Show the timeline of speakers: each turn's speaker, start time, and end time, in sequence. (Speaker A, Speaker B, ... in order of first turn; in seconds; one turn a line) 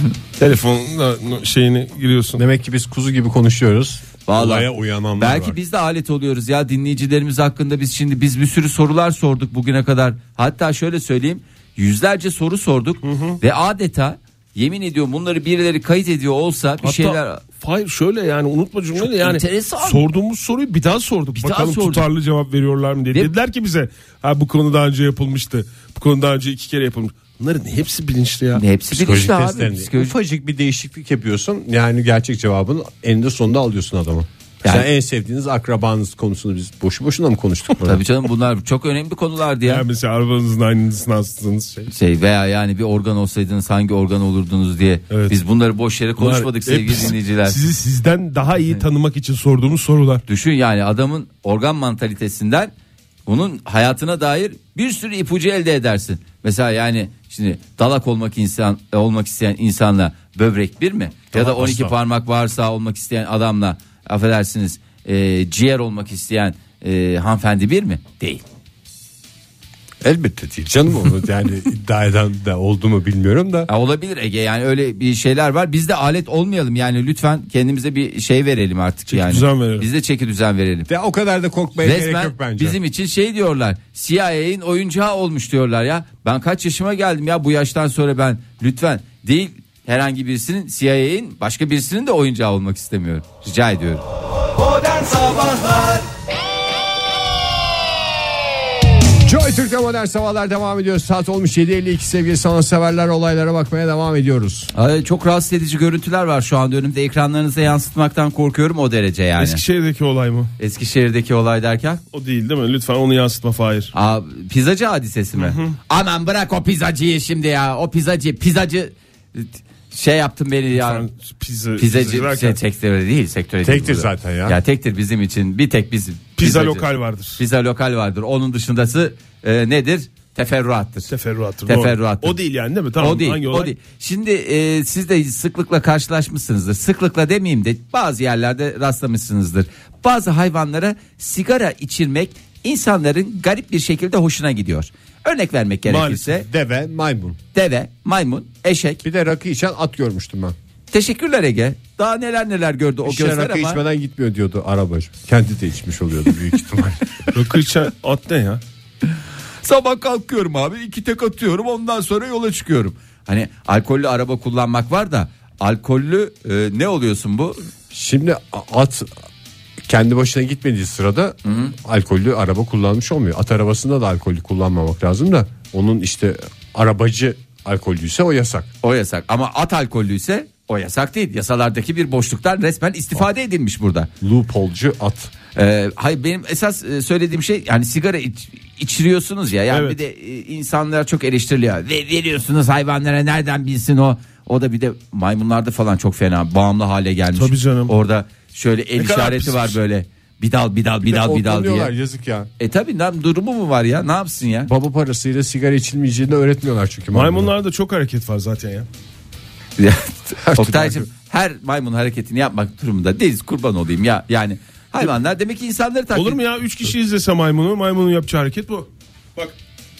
Speaker A: 0.4-2.4
Speaker B: 2.4-5.5
Speaker C: 4.3-17.4
Speaker A: 13.0-13.4
Speaker A: 16.8-28.6
Speaker C: 18.9-20.0
Speaker C: 21.3-22.1
Speaker C: 28.6-30.1
Speaker B: 28.9-38.0
Speaker C: 37.8-39.8
Speaker A: 39.6-41.9
Speaker C: 41.9-47.6
Speaker A: 45.1-45.3
Speaker A: 46.2-50.2
Speaker C: 50.3-52.7
Speaker C: 53.2-68.4
Speaker B: 61.3-61.9
Speaker B: 70.0-73.7
Speaker C: 73.7-80.9
Speaker A: 79.1-79.9
Speaker B: 80.9-82.8
Speaker C: 81.8-94.0
Speaker C: 94.6-96.0
Speaker B: 99.2-104.7
Speaker C: 104.7-109.6
Speaker A: 109.4-110.5
Speaker C: 110.6-112.0
Speaker A: 112.1-113.9
Speaker C: 113.9-121.0
Speaker A: 115.4-115.8
Speaker A: 120.7-122.6
Speaker C: 121.8-131.1
Speaker B: 123.6-124.6
Speaker A: 126.4-127.4
Speaker A: 131.1-133.7
Speaker C: 131.7-132.4
Speaker C: 133.0-146.4
Speaker A: 145.8-146.3
Speaker B: 146.3-147.4
Speaker C: 147.5-149.0
Speaker B: 149.0-150.5
Speaker C: 150.9-153.8
Speaker B: 153.0-157.3
Speaker A: 157.3-158.6
Speaker C: 159.6-167.6
Speaker B: 167.9-169.1
Speaker B: 169.8-178.7
Speaker C: 171.4-171.7
Speaker C: 178.8-184.1
Speaker B: 184.2-185.3
Speaker C: 185.5-201.9
Speaker A: 189.7-190.0
Speaker A: 197.3-197.9
Speaker A: 199.0-199.7
Speaker B: 201.0-202.5
Speaker C: 202.6-204.7
Speaker B: 204.7-207.5
Speaker A: 207.1-208.9
Speaker C: 209.8-216.4
Speaker B: 210.4-211.1
Speaker A: 216.1-219.5